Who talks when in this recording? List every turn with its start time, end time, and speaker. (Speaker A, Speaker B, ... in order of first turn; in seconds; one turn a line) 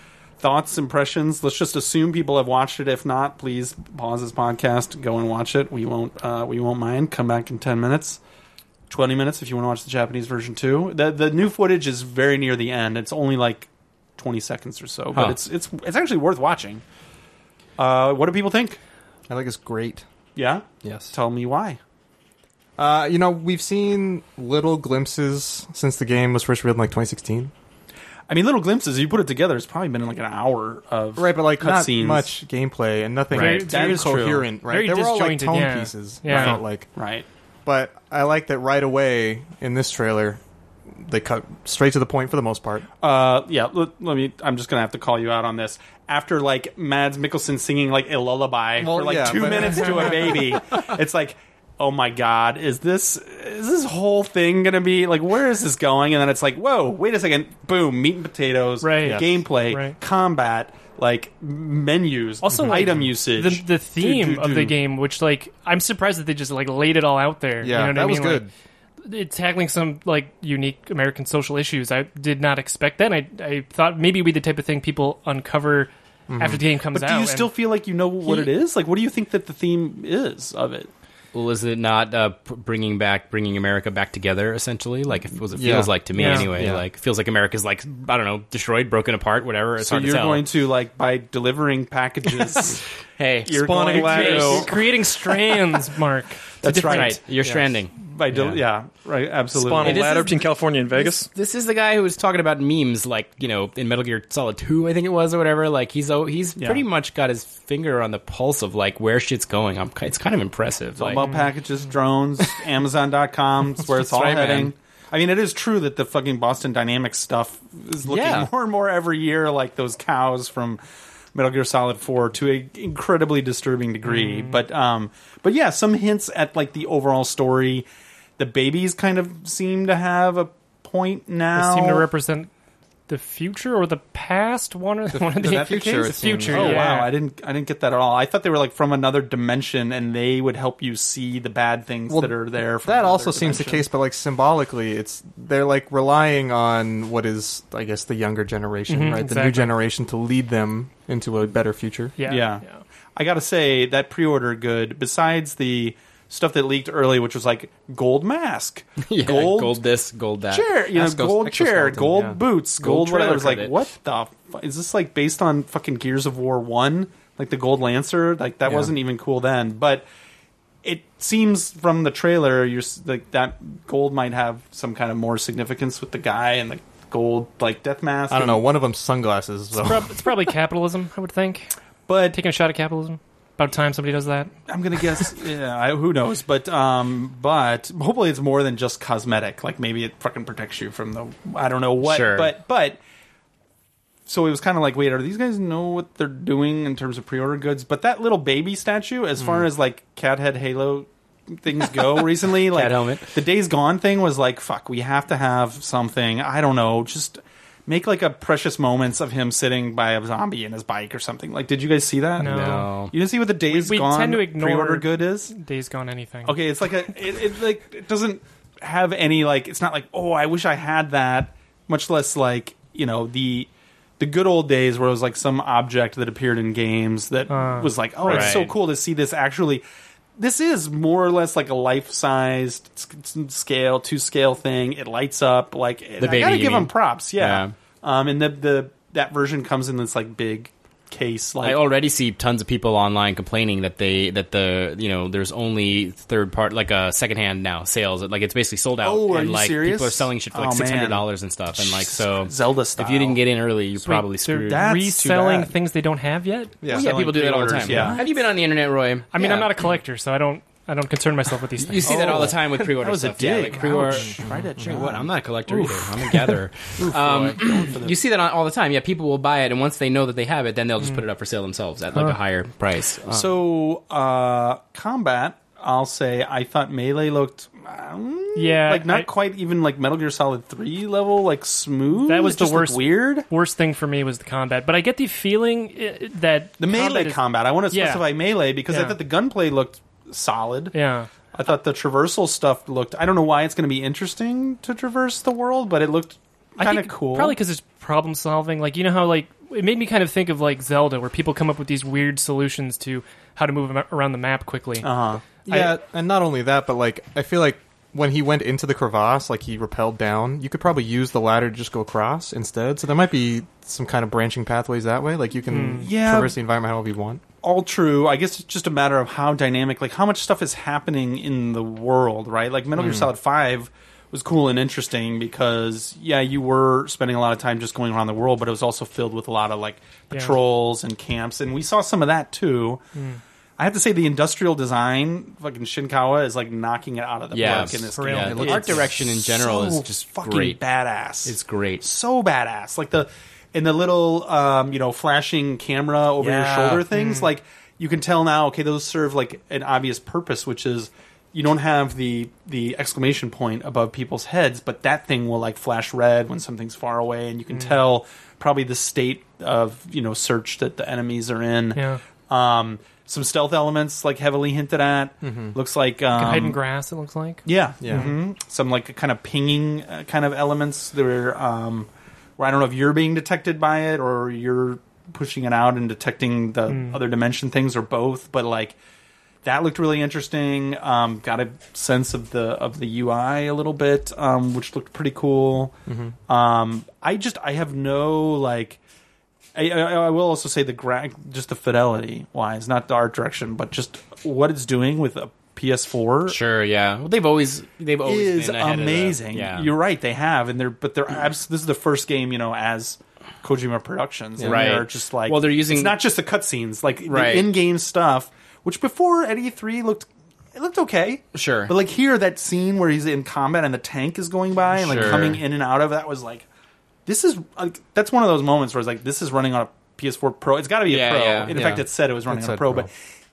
Speaker A: 0.4-8.2
Speaker A: 8.9-16.8
Speaker A: 17.8-18.8
Speaker B: 19.3-20.1
Speaker A: 20.4-21.8
Speaker B: 20.8-21.1
Speaker B: 22.8-27.5
Speaker A: 28.3-32.3
Speaker B: 31.2-36.9
Speaker C: 33.3-36.6
Speaker A: 33.3-34.5
Speaker A: 36.3-37.3
Speaker B: 37.7-40.4
Speaker B: 41.0-42.9
Speaker A: 43.0-64.8
Speaker B: 48.8-50.6
Speaker C: 58.8-60.0
Speaker B: 59.0-59.4
Speaker C: 62.5-68.5
Speaker B: 67.6-68.5
Speaker C: 69.0-77.5
Speaker B: 76.3-76.6
Speaker A: 76.9-80.9
Speaker D: 81.3-90.5
Speaker B: 85.6-86.8
Speaker C: 86.1-86.5
Speaker A: 89.8-92.8
Speaker D: 93.2-94.6
Speaker A: 93.5-94.7
Speaker E: 93.5-94.7
Speaker C: 94.0-97.2
Speaker A: 96.6-97.2
Speaker D: 96.7-98.6
Speaker A: 98.0-100.1
Speaker E: 99.5-101.3
Speaker D: 99.8-100.4
Speaker D: 100.9-111.3
Speaker A: 106.6-106.8
Speaker A: 111.0-120.8
Speaker C: 111.2-111.5
Speaker D: 113.8-114.7
Speaker D: 118.1-118.5
Speaker A: 121.3-127.9
Speaker C: 124.1-124.6
Speaker A: 128.4-132.1
Speaker C: 131.6-132.5
Speaker C: 133.1-137.1
Speaker B: 135.1-136.9
Speaker A: 135.6-143.9
Speaker B: 142.1-152.2
Speaker C: 148.9-149.7
Speaker C: 152.2-152.8
Speaker A: 152.2-152.6
Speaker A: 153.2-159.8
Speaker D: 159.0-160.7
Speaker A: 160.5-170.1
Speaker B: 160.9-162.4
Speaker D: 162.8-163.7
Speaker A: 170.8-178.7
Speaker B: 178.3-180.3
Speaker C: 179.7-181.7
Speaker A: 182.1-182.4
Speaker C: 182.3-184.5
Speaker A: 184.7-193.0
Speaker D: 192.0-192.5
Speaker A: 194.3-215.5
Speaker D: 202.6-203.3
Speaker C: 212.4-212.9
Speaker D: 212.4-213.1
Speaker C: 213.7-216.6
Speaker A: 216.5-229.8
Speaker C: 227.5-228.5
Speaker D: 228.2-228.7
Speaker A: 230.4-241.8
Speaker D: 236.2-237.8
Speaker D: 241.6-254.8
Speaker A: 249.0-253.4
Speaker C: 254.0-256.8
Speaker A: 254.7-255.7
Speaker B: 256.8-257.2
Speaker A: 256.9-258.2
Speaker D: 256.9-259.7
Speaker B: 257.9-258.1
Speaker C: 257.9-258.2
Speaker C: 259.3-262.5
Speaker D: 261.8-273.5
Speaker A: 262.1-266.4
Speaker A: 267.0-268.2
Speaker A: 273.3-283.5
Speaker C: 278.6-279.3
Speaker C: 282.2-288.3
Speaker A: 286.8-290.9
Speaker C: 288.9-289.2
Speaker C: 290.9-291.3
Speaker A: 291.5-297.6
Speaker C: 296.8-305.1
Speaker A: 305.0-305.4
Speaker B: 305.7-317.4
Speaker C: 305.7-305.9
Speaker C: 315.7-316.1
Speaker A: 316.0-316.6
Speaker A: 317.6-333.0
Speaker B: 323.0-323.2
Speaker C: 330.3-330.6
Speaker C: 333.2-333.4
Speaker A: 333.8-366.8
Speaker D: 337.5-340.8
Speaker C: 338.1-339.0
Speaker B: 338.5-339.0
Speaker D: 341.4-342.1
Speaker D: 346.4-346.9
Speaker C: 347.1-347.5
Speaker C: 357.7-358.0
Speaker C: 361.9-362.2
Speaker B: 365.4-365.8
Speaker C: 366.3-368.4
Speaker A: 367.6-379.0
Speaker B: 368.0-368.4
Speaker C: 376.9-377.2
Speaker A: 379.6-386.0
Speaker B: 386.1-386.3
Speaker A: 386.5-389.0
Speaker A: 389.8-396.6
Speaker D: 396.5-399.9
Speaker A: 398.3-416.7
Speaker D: 404.6-406.2
Speaker D: 407.3-407.7
Speaker D: 411.5-411.9
Speaker D: 415.0-415.6
Speaker A: 417.3-423.1
Speaker D: 421.1-422.0
Speaker B: 422.5-423.1